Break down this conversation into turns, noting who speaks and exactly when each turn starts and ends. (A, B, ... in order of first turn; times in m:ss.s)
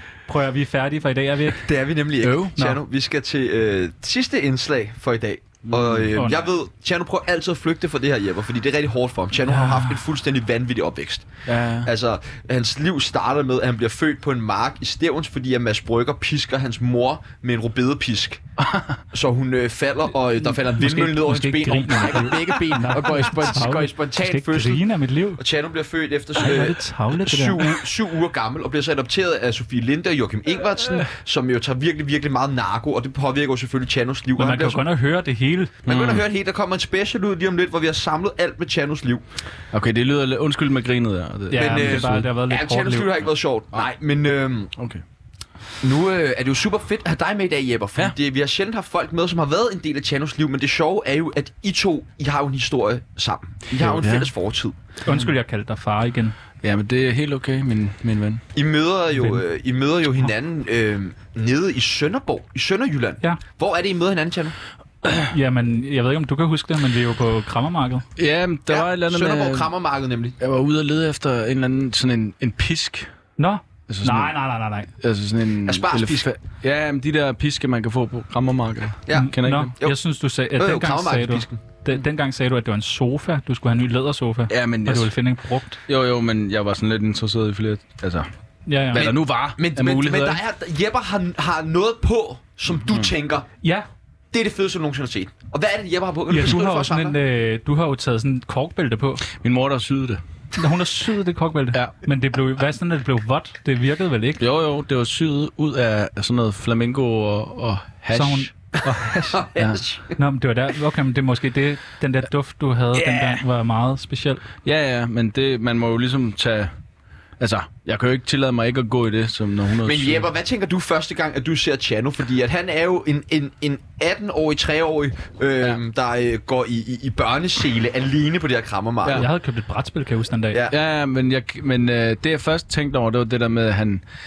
0:00.3-0:01.7 A
0:01.6-0:11.3 B
0:02.2-0:02.6 C
0:05.7-0:06.1 C
0:09.4-0:10.0 A
0:11.5-0:11.9 C
0:11.8-0:18.4 B
0:18.6-0:19.0 C
0:19.1-0:24.8 B
0:20.4-0:25.4 A
0:25.4-0:34.8 B
0:26.4-0:27.7 A
0:34.4-0:35.7 A
0:35.8-0:39.2 B
0:35.9-0:36.3 C
0:39.7-0:42.3 C
0:41.5-0:43.3 A
0:41.5-0:44.7 B
0:44.8-0:45.0 C
0:45.8-0:54.8 B
0:53.8-0:54.3 C
0:55.1-0:56.4 A
0:56.6-0:58.4 C
0:58.6-1:04.6 B
0:59.2-0:59.4 A
1:05.2-1:08.0 A
1:08.2-1:09.7 C
1:08.7-1:10.4 B
1:10.4-1:13.1 C
1:13.4-1:14.9 A
1:13.9-1:14.4 C
1:15.0-1:19.7 C
1:15.7-1:16.3 B
1:19.1-1:20.0 B
1:19.1-1:25.8 A
1:20.6-1:21.6 B
1:24.5-1:25.1 C
1:25.9-1:28.3 C
1:28.7-1:29.1 A
1:28.9-1:30.4 C
1:28.9-1:33.5 B
1:32.9-1:33.1 C
1:34.3-1:37.2 B
1:36.3-1:39.2 A
1:39.3-1:40.2 C
1:40.6-1:44.4 A
1:44.4-1:48.5 C
1:48.1-1:49.4 A
1:49.3-1:50.2 B
1:49.6-1:49.8 C
1:50.2-1:54.4 A
1:52.9-1:53.4 C
1:54.6-1:56.7 C
1:57.4-2:00.3 C
1:59.8-2:09.3 B
2:09.0-2:09.3 C
2:09.1-2:10.6 A
2:10.7-2:14.0 C